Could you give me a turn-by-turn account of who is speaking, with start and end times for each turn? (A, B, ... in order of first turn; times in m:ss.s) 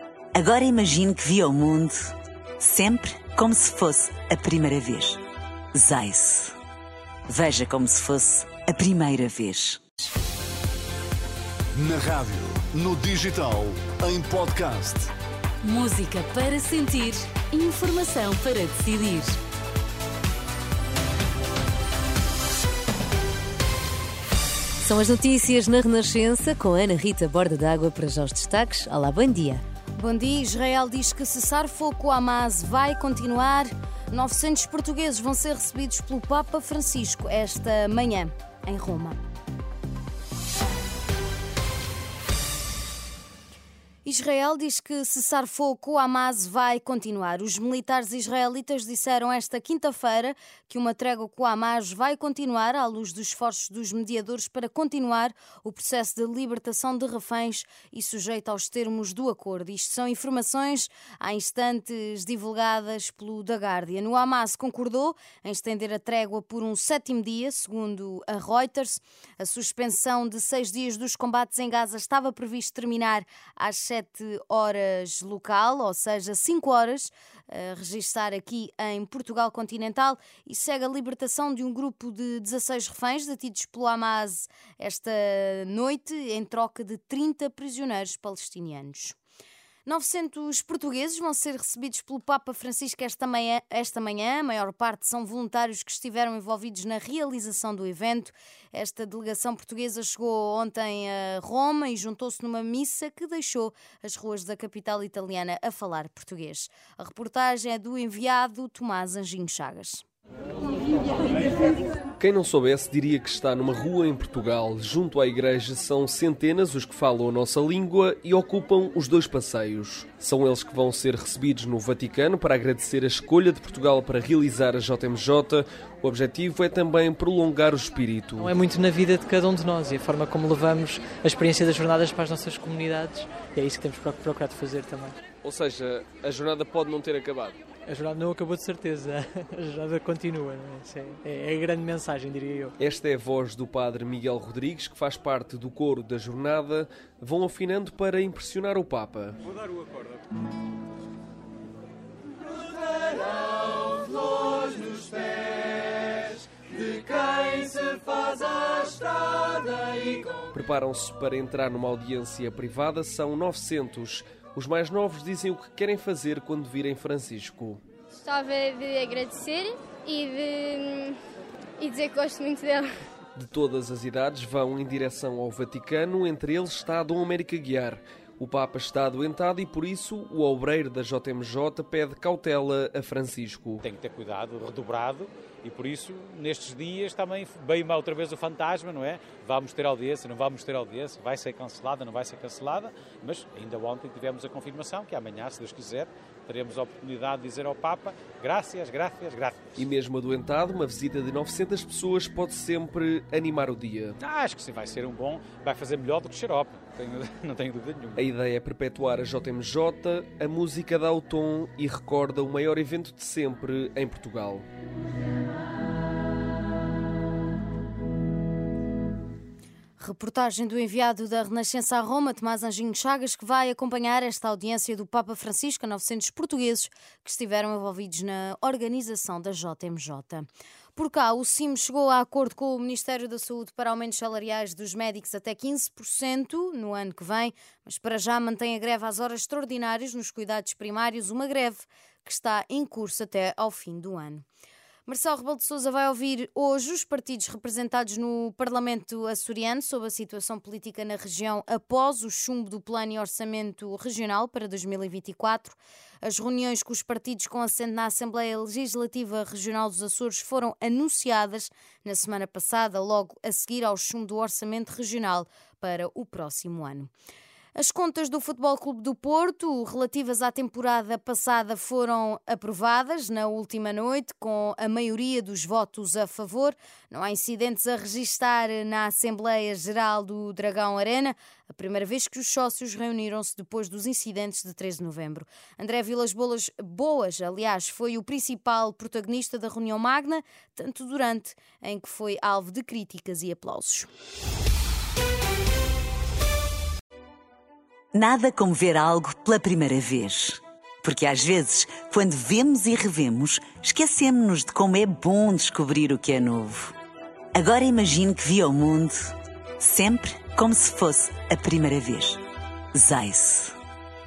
0:00.3-0:05.2 A
0:05.8-0:06.6 A
0:07.3-0:09.8 A
0:11.8-0:15.1 B
0:15.6-0:19.4 C
0:24.8-0:29.6 C
0:30.0-0:39.2 D
0:44.0-1:29.2 D
1:29.9-1:50.0 D
1:52.2-2:08.5 E
2:08.4-2:15.2 F
2:15.4-2:17.6 E
2:17.9-2:22.8 F
2:22.8-2:29.4 E
2:40.5-2:47.8 E
2:48.2-2:51.2 G
2:51.8-2:53.0 G
2:53.4-3:03.8 E
3:03.8-3:19.6 H
3:19.8-3:24.2 E
3:24.2-3:28.3 H
3:28.2-3:34.7 E
3:40.0-4:04.4 D
4:05.1-4:27.1 D
4:27.8-4:54.1 D
4:58.1-5:07.0 A
5:07.6-5:12.4 A
5:13.0-5:13.8 A